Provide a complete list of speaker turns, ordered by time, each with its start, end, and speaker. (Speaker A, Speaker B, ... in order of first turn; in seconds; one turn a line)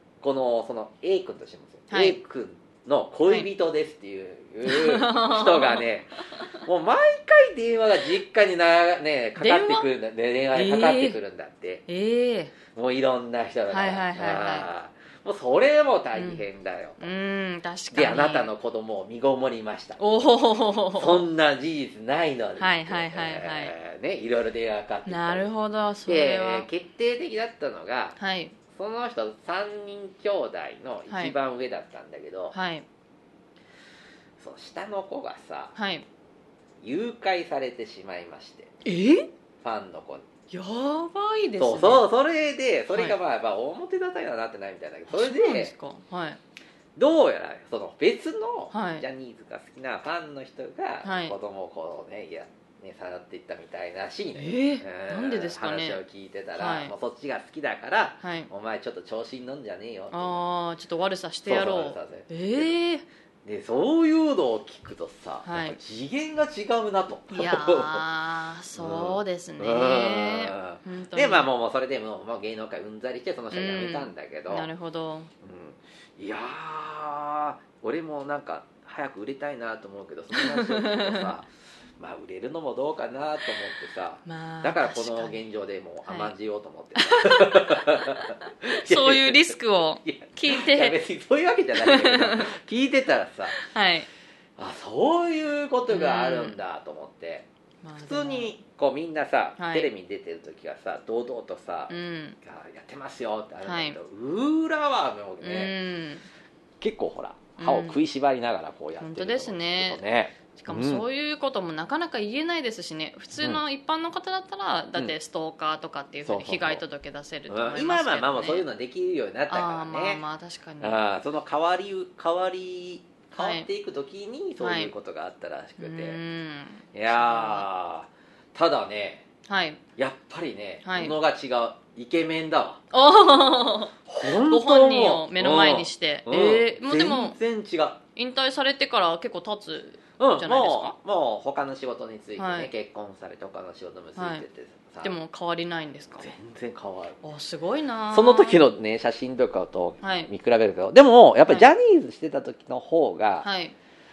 Speaker A: 0.2-11.8
Speaker B: 1.9-2.2
Speaker B: 4.7-5.9
Speaker B: 9.4-9.9
Speaker B: 10.5-11.2
Speaker B: 11.9-12.5
Speaker A: 12.7-17.1
Speaker B: 13.7-14.7
Speaker B: 16.1-16.4
Speaker B: 17.0-18.5
Speaker A: 17.9-20.0
Speaker B: 20.0-21.2
Speaker A: 20.9-25.5
Speaker B: 22.6-23.7
Speaker B: 25.1-26.7
Speaker A: 26.1-28.2
Speaker B: 28.2-28.6
Speaker A: 28.7-32.5
Speaker B: 31.1-31.4
Speaker B: 32.5-32.9
Speaker A: 34.4-35.8
Speaker B: 35.8-36.1
Speaker A: 36.8-38.7
Speaker B: 38.8-39.3
Speaker A: 39.6-40.3
Speaker B: 40.5-42.0
Speaker A: 41.6-45.7
Speaker B: 42.9-43.2
Speaker B: 45.1-46.4
Speaker A: 47.0-60.4
Speaker B: 48.7-49.0
Speaker B: 51.0-51.4
Speaker B: 54.4-56.0
Speaker B: 56.6-56.9
Speaker B: 58.2-58.5
Speaker B: 60.1-63.0
Speaker A: 61.5-62.7
Speaker A: 63.5-68.0
Speaker B: 65.5-65.8
Speaker B: 67.3-71.5
Speaker A: 68.8-74.7
Speaker B: 73.5-75.3
Speaker A: 75.4-81.5
Speaker B: 80.3-81.3
Speaker A: 82.0-93.6
Speaker B: 84.3-85.4
Speaker B: 86.1-86.3
Speaker B: 87.0-91.0
Speaker B: 91.8-92.5
Speaker B: 93.5-94.1
Speaker A: 94.6-97.5
Speaker B: 95.9-96.6
Speaker B: 97.8-98.5
Speaker A: 98.0-105.7
Speaker B: 99.6-99.9
Speaker B: 101.9-102.4
Speaker B: 103.6-104.0
Speaker B: 105.4-106.3
Speaker A: 106.8-111.0
Speaker B: 107.6-108.0
Speaker B: 109.0-110.0
Speaker B: 110.5-118.7
Speaker A: 116.2-116.8
Speaker A: 117.5-120.2
Speaker B: 119.5-121.0
Speaker A: 120.8-126.2
Speaker B: 123.4-123.7
Speaker B: 124.6-124.9
Speaker B: 125.8-127.7
Speaker A: 126.9-129.2
Speaker B: 129.5-129.8
Speaker A: 130.0-132.8
Speaker B: 130.8-131.2
Speaker B: 132.9-137.4
Speaker A: 134.1-138.0
Speaker B: 138.2-140.9
Speaker A: 140.2-145.2
Speaker B: 142.4-142.7
Speaker B: 144.2-144.4
Speaker B: 145.0-146.3
Speaker A: 146.2-147.2
Speaker B: 147.2-148.7
Speaker A: 148.1-153.5
Speaker B: 150.0-150.3
Speaker B: 153.4-153.8